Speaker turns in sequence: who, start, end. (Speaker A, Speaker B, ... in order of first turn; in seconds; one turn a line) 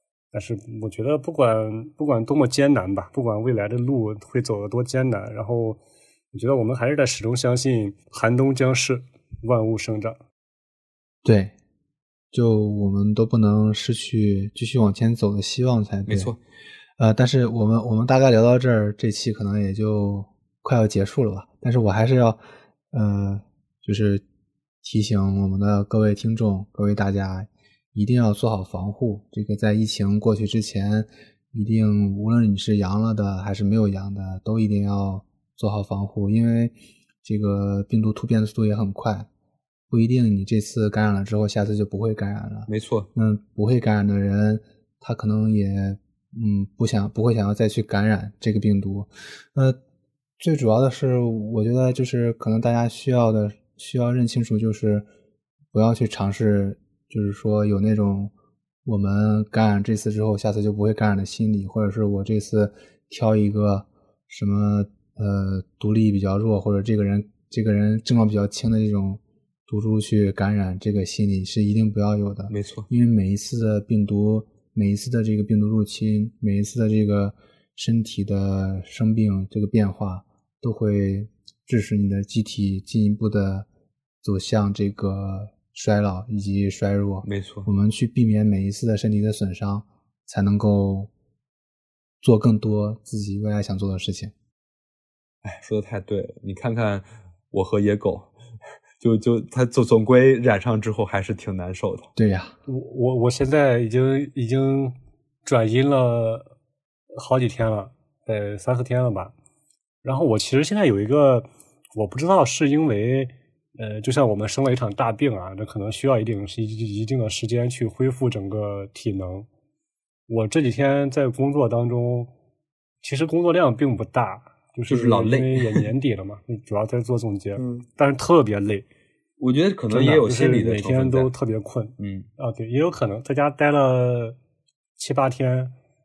Speaker A: 0.3-5.8
Speaker A: 6.3-10.2
Speaker B: 11.2-11.5
Speaker B: 12.3-16.3
Speaker C: 16.1-16.4
Speaker B: 17.0-24.2
Speaker B: 24.8-39.3
Speaker B: 39.9-49.8
Speaker C: 42.7-43.1
Speaker B: 50.4-55.0
Speaker B: 55.7-58.3
Speaker B: 58.8-83.7
Speaker C: 72.5-72.9
Speaker B: 84.2-91.1
Speaker C: 87.2-87.7
Speaker B: 92.2-94.3
Speaker C: 95.4-98.3
Speaker C: 99.0-102.1
Speaker B: 102.2-102.5
Speaker A: 102.7-106.5
Speaker A: 107.1-109.3
Speaker A: 110.0-119.5
Speaker A: 120.3-122.3
Speaker A: 123.0-128.9
Speaker C: 124.9-125.8
Speaker C: 127.6-127.8
Speaker C: 129.4-131.3
Speaker A: 129.9-134.4
Speaker C: 132.0-132.3
Speaker A: 135.0-135.7